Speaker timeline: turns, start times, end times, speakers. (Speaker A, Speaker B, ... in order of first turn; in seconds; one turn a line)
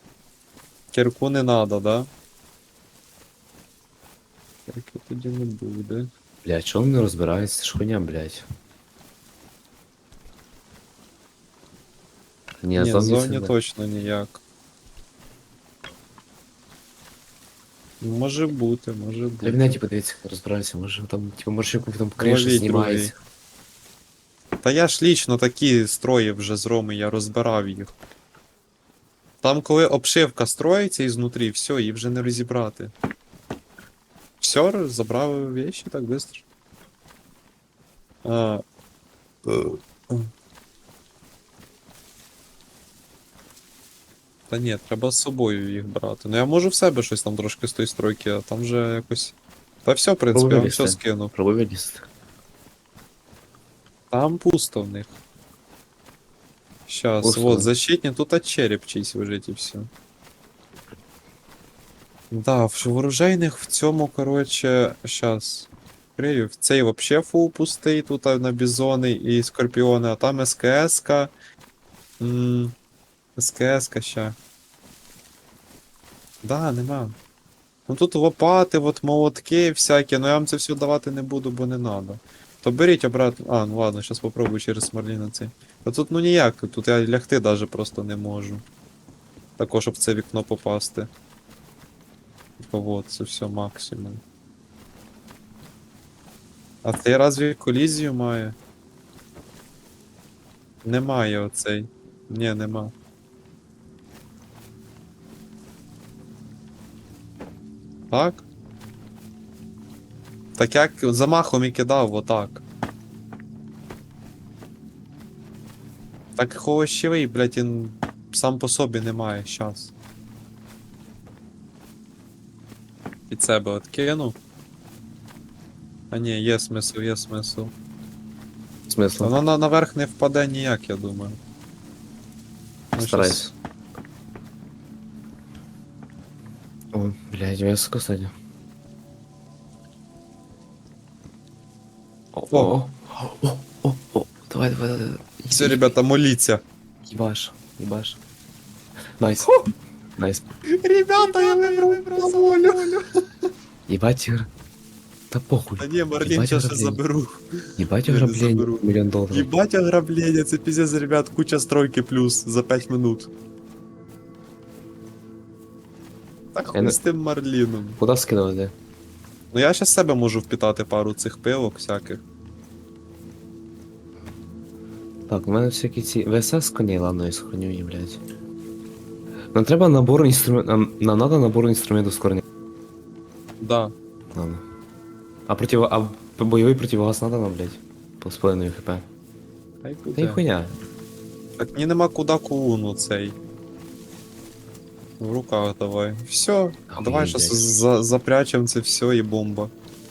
Speaker A: 0.9-2.1
Speaker A: 4.7-6.1
Speaker B: 6.4-8.5
Speaker B: 12.6-13.5
Speaker A: 12.8-14.4
Speaker A: 18.0-19.8
Speaker B: 19.4-23.1
Speaker A: 22.2-23.1
Speaker A: 24.6-27.9
Speaker A: 29.4-32.9
Speaker A: 34.4-36.5
Speaker A: 38.2-38.6
Speaker A: 39.5-40.3
Speaker A: 44.5-49.3
Speaker A: 49.9-51.3
Speaker B: 50.3-52.1
Speaker A: 54.1-55.2
Speaker A: 56.9-59.9
Speaker B: 57.2-57.7
Speaker A: 62.3-71.3
Speaker A: 72.2-72.8
Speaker A: 73.4-74.4
Speaker A: 76.4-77.2
Speaker A: 77.9-88.6
Speaker A: 89.6-91.1
Speaker A: 92.6-94.2
Speaker A: 96.8-98.6
Speaker A: 100.8-102.9
Speaker A: 108.1-108.5
Speaker A: 110.6-112.6
Speaker A: 116.4-119.9
Speaker A: 123.3-124.4
Speaker A: 126.1-127.7
Speaker B: 128.9-129.3
Speaker A: 129.2-131.4
Speaker A: 133.0-133.5
Speaker B: 133.0-133.5
Speaker B: 136.9-138.3
Speaker B: 142.3-145.9
Speaker A: 142.5-142.8
Speaker A: 145.5-146.6
Speaker B: 147.1-148.2
Speaker B: 149.2-149.5
Speaker B: 150.2-150.5
Speaker A: 150.8-153.1
Speaker B: 153.9-154.5
Speaker B: 155.3-157.0
Speaker A: 155.8-157.4
Speaker B: 157.8-159.5
Speaker A: 158.0-163.3
Speaker A: 166.5-168.0
Speaker B: 166.7-167.0
Speaker B: 168.0-168.7
Speaker A: 169.5-172.2
Speaker B: 175.3-178.2
Speaker B: 179.5-182.4
Speaker A: 183.6-183.9
Speaker B: 184.3-184.6
Speaker B: 185.5-189.1
Speaker A: 189.8-190.4
Speaker B: 190.2-190.8
Speaker A: 191.6-193.4
Speaker A: 195.2-199.7
Speaker B: 196.9-197.8